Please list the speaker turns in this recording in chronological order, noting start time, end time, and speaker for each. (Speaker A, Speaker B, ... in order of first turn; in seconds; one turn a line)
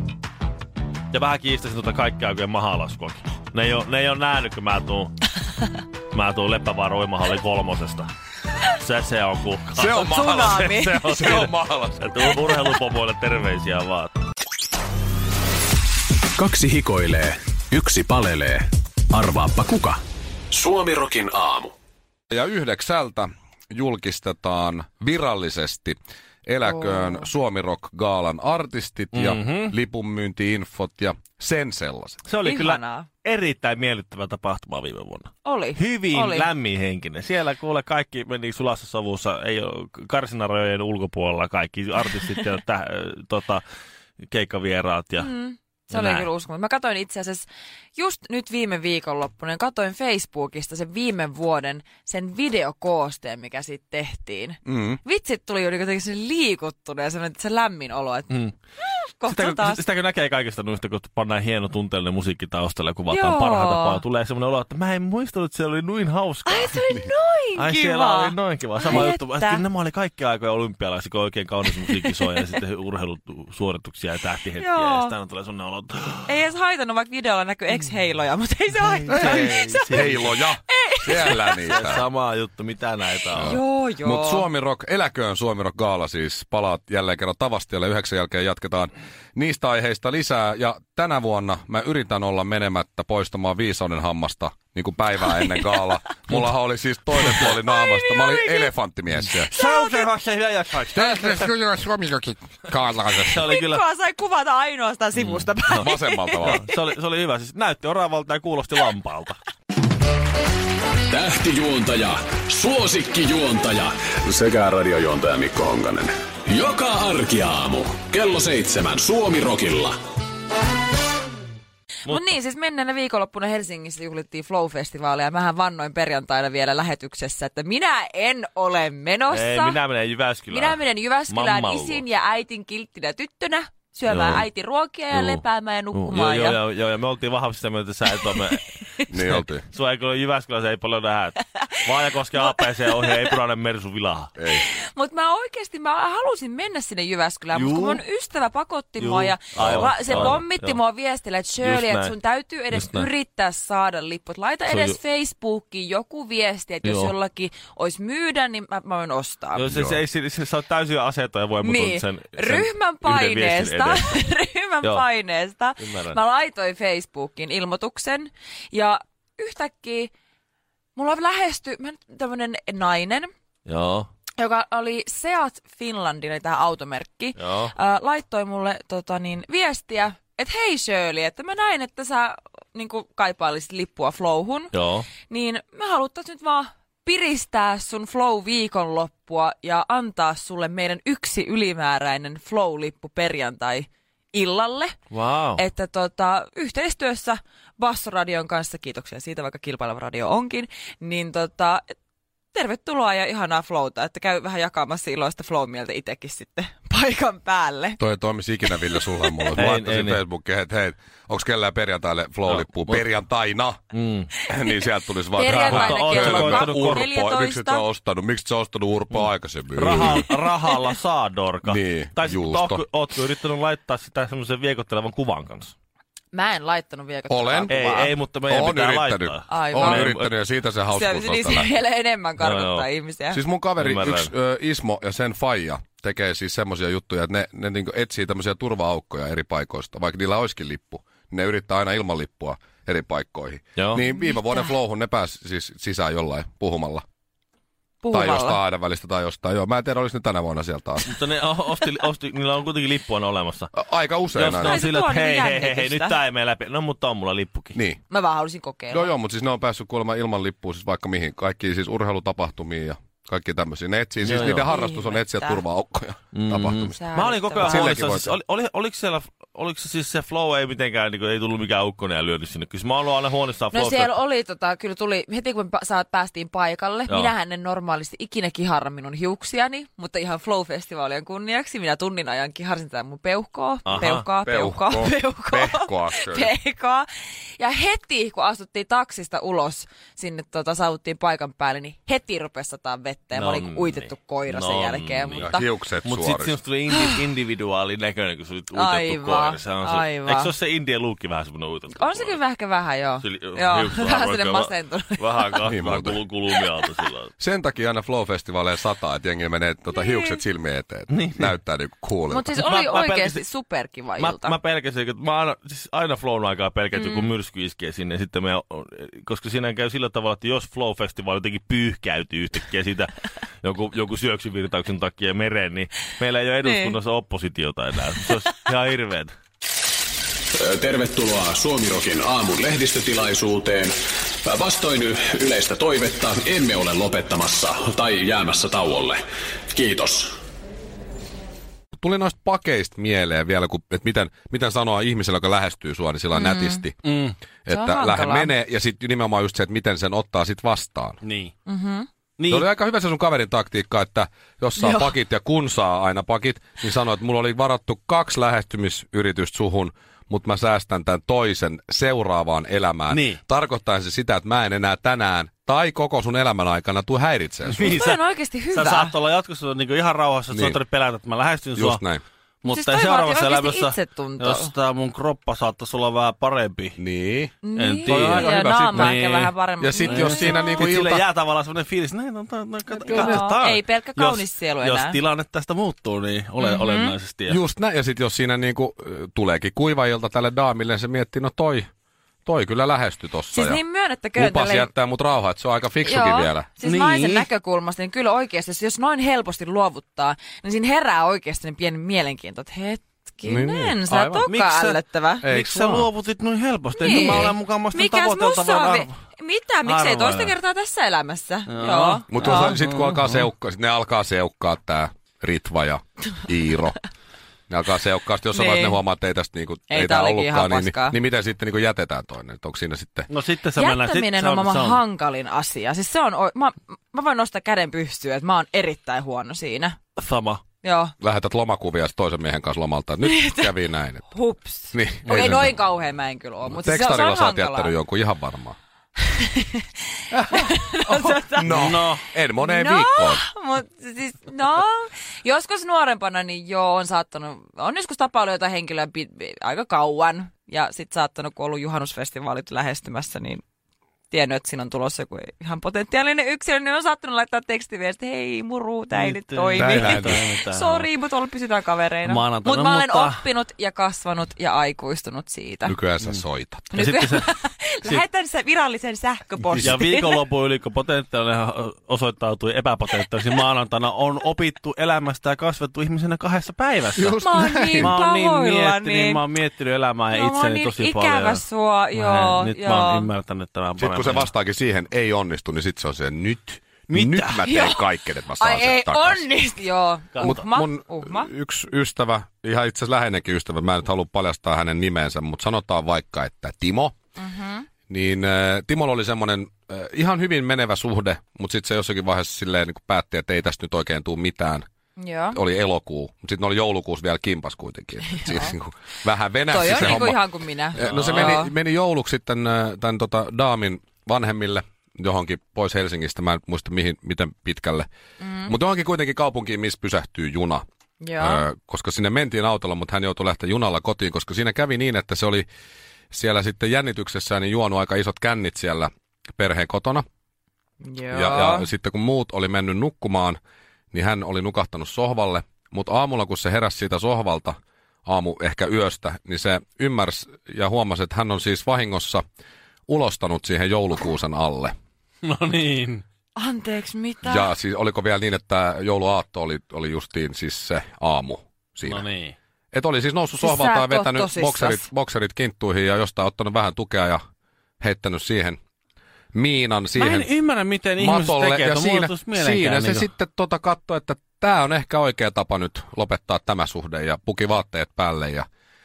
Speaker A: 1.1-5.2
Speaker A: 6.1-8.1
Speaker A: 8.7-14.1
Speaker B: 9.7-12.3
Speaker C: 9.9-11.4
Speaker D: 16.4-20.0
Speaker D: 20.5-21.7
Speaker B: 22.3-32.2
Speaker C: 26.6-27.3
Speaker A: 29.1-29.7
Speaker A: 32.3-43.6
Speaker C: 32.4-33.1
Speaker C: 35.4-36.5
Speaker A: 44.3-45.3
Speaker C: 45.2-59.8
Speaker A: 45.9-46.3
Speaker B: 54.6-55.0
Speaker A: 59.3-66.8
Speaker C: 63.1-64.0
Speaker C: 66.5-69.7
Speaker A: 67.5-76.3
Speaker C: 71.8-72.4
Speaker C: 74.6-75.1
Speaker C: 76.3-79.8
Speaker A: 78.8-80.3
Speaker B: 79.1-82.0
Speaker C: 80.7-81.9
Speaker A: 81.2-83.6
Speaker B: 83.3-99.5
Speaker C: 83.4-84.5
Speaker C: 95.4-95.7
Speaker A: 97.2-97.5
Speaker C: 97.7-98.7
Speaker A: 99.4-101.5
Speaker C: 99.5-100.0
Speaker B: 100.9-103.4
Speaker A: 103.2-103.8
Speaker C: 103.4-106.8
Speaker A: 105.1-105.9
Speaker B: 105.8-106.6
Speaker A: 106.4-109.4
Speaker D: 111.1-120.0
Speaker A: 122.0-122.3
Speaker C: 122.1-129.8
Speaker A: 129.3-132.0
Speaker C: 130.5-136.6
Speaker A: 134.1-134.4
Speaker A: 135.1-135.4
Speaker A: 135.9-144.3
Speaker B: 139.1-139.6
Speaker B: 144.3-144.6
Speaker C: 144.5-159.7
Speaker A: 147.5-148.0
Speaker A: 149.0-150.8
Speaker B: 149.6-150.4
Speaker A: 151.6-152.1
Speaker A: 152.7-153.1
Speaker A: 154.7-155.0
Speaker A: 156.8-157.1
Speaker A: 159.5-164.2
Speaker B: 159.7-160.0
Speaker C: 161.6-170.1
Speaker A: 165.8-166.2
Speaker C: 170.9-173.3
Speaker A: 173.7-174.1
Speaker C: 174.4-184.7
Speaker A: 177.3-177.7
Speaker A: 184.7-185.1
Speaker C: 185.3-194.9
Speaker A: 195.1-195.6
Speaker C: 195.6-201.9
Speaker C: 202.5-208.0
Speaker B: 208.0-213.8
Speaker C: 208.6-209.6
Speaker A: 209.6-210.2
Speaker A: 212.4-213.1
Speaker A: 213.9-214.3
Speaker B: 214.4-220.2
Speaker C: 215.3-217.8
Speaker A: 215.7-217.1
Speaker A: 219.1-225.7
Speaker B: 221.6-222.8
Speaker C: 226.3-228.1
Speaker B: 227.3-227.7
Speaker A: 227.7-230.3
Speaker B: 228.5-231.7
Speaker C: 229.5-230.1
Speaker C: 230.9-233.4
Speaker A: 232.4-232.9
Speaker B: 233.3-247.0
Speaker A: 233.8-234.3
Speaker C: 244.1-244.7
Speaker C: 248.0-248.6
Speaker B: 248.1-251.1
Speaker A: 251.0-253.7
Speaker B: 253.7-254.8
Speaker A: 254.3-257.8
Speaker C: 254.6-256.2
Speaker B: 257.7-258.0
Speaker C: 258.1-259.1
Speaker B: 258.9-267.0
Speaker A: 264.2-264.7
Speaker C: 264.6-265.6
Speaker A: 266.3-274.1
Speaker C: 267.0-268.0
Speaker B: 267.6-268.3
Speaker C: 273.7-295.7
Speaker A: 277.1-277.3
Speaker A: 283.9-284.2
Speaker B: 283.9-286.5
Speaker A: 293.3-302.4
Speaker B: 295.4-296.5
Speaker C: 296.9-297.2
Speaker C: 298.7-300.5
Speaker C: 301.9-305.6
Speaker A: 303.2-307.3
Speaker B: 305.6-306.2
Speaker B: 307.4-312.5
Speaker C: 309.9-310.4
Speaker A: 311.1-311.5
Speaker C: 312.3-314.6
Speaker A: 312.5-313.4
Speaker A: 314.2-329.3
Speaker C: 316.9-317.3
Speaker C: 326.6-326.9
Speaker D: 330.6-339.2
Speaker D: 339.7-340.3
Speaker B: 342.0-347.0
Speaker C: 346.3-346.8
Speaker A: 347.0-347.4
Speaker B: 347.6-351.2
Speaker C: 347.7-348.5
Speaker A: 351.2-351.5
Speaker C: 351.6-352.1
Speaker A: 352.4-352.7
Speaker B: 352.5-368.0
Speaker C: 354.8-355.1
Speaker A: 363.1-363.4
Speaker A: 367.7-368.2
Speaker C: 367.9-369.1
Speaker A: 368.7-372.0
Speaker B: 370.5-370.8
Speaker B: 371.8-372.2
Speaker A: 372.6-377.0
Speaker C: 372.6-374.7
Speaker B: 377.0-377.5
Speaker C: 377.6-380.9
Speaker A: 377.7-387.6
Speaker B: 378.1-379.2
Speaker B: 379.8-381.2
Speaker C: 383.0-385.2
Speaker C: 386.6-387.1
Speaker B: 387.5-391.9
Speaker B: 392.4-393.8
Speaker C: 393.5-394.9
Speaker B: 394.3-396.7
Speaker C: 396.0-405.4
Speaker A: 396.8-397.5
Speaker B: 403.4-404.5
Speaker A: 404.4-409.2
Speaker B: 405.4-406.1
Speaker C: 407.0-412.7
Speaker B: 407.0-407.5
Speaker A: 409.8-410.6
Speaker A: 411.7-413.5
Speaker B: 412.3-417.0
Speaker B: 417.7-423.3
Speaker C: 418.5-419.0
Speaker C: 419.9-421.1
Speaker A: 423.3-425.0
Speaker C: 423.8-430.0
Speaker A: 430.2-430.6
Speaker C: 430.8-431.1
Speaker B: 431.2-434.3
Speaker C: 433.2-433.7
Speaker C: 434.3-437.9
Speaker B: 434.9-435.8
Speaker A: 435.2-435.6
Speaker B: 436.6-438.8
Speaker C: 439.3-440.0
Speaker B: 440.3-443.4
Speaker C: 440.5-453.6
Speaker A: 441.6-442.2
Speaker C: 454.3-465.9
Speaker A: 459.1-461.1
Speaker B: 459.8-460.4
Speaker A: 462.2-463.4
Speaker B: 465.9-466.9
Speaker C: 466.9-470.4
Speaker A: 466.9-467.5
Speaker A: 469.8-481.6
Speaker B: 477.1-478.1
Speaker C: 477.4-479.4
Speaker C: 480.3-483.3
Speaker A: 482.1-484.5
Speaker B: 484.0-489.5
Speaker A: 487.1-487.6
Speaker C: 487.6-488.0
Speaker C: 488.6-491.5
Speaker A: 490.3-490.6
Speaker B: 490.4-497.1
Speaker C: 497.4-497.9
Speaker B: 498.1-504.9
Speaker C: 505.2-505.6
Speaker B: 505.5-510.4
Speaker C: 508.3-508.7
Speaker C: 509.7-511.7
Speaker B: 510.9-518.1
Speaker A: 511.0-511.6
Speaker C: 518.4-518.7
Speaker B: 518.6-520.8
Speaker C: 521.2-521.6
Speaker B: 521.4-525.6
Speaker B: 526.3-530.2
Speaker C: 531.0-531.9
Speaker B: 531.3-533.6
Speaker B: 534.1-542.4
Speaker B: 543.1-544.9
Speaker A: 545.4-546.2
Speaker C: 546.5-547.7
Speaker B: 547.4-552.2
Speaker A: 552.0-552.5
Speaker B: 552.9-557.4
Speaker C: 553.6-555.0
Speaker B: 558.0-558.8
Speaker B: 559.5-560.5
Speaker A: 560.2-563.3
Speaker B: 561.1-568.6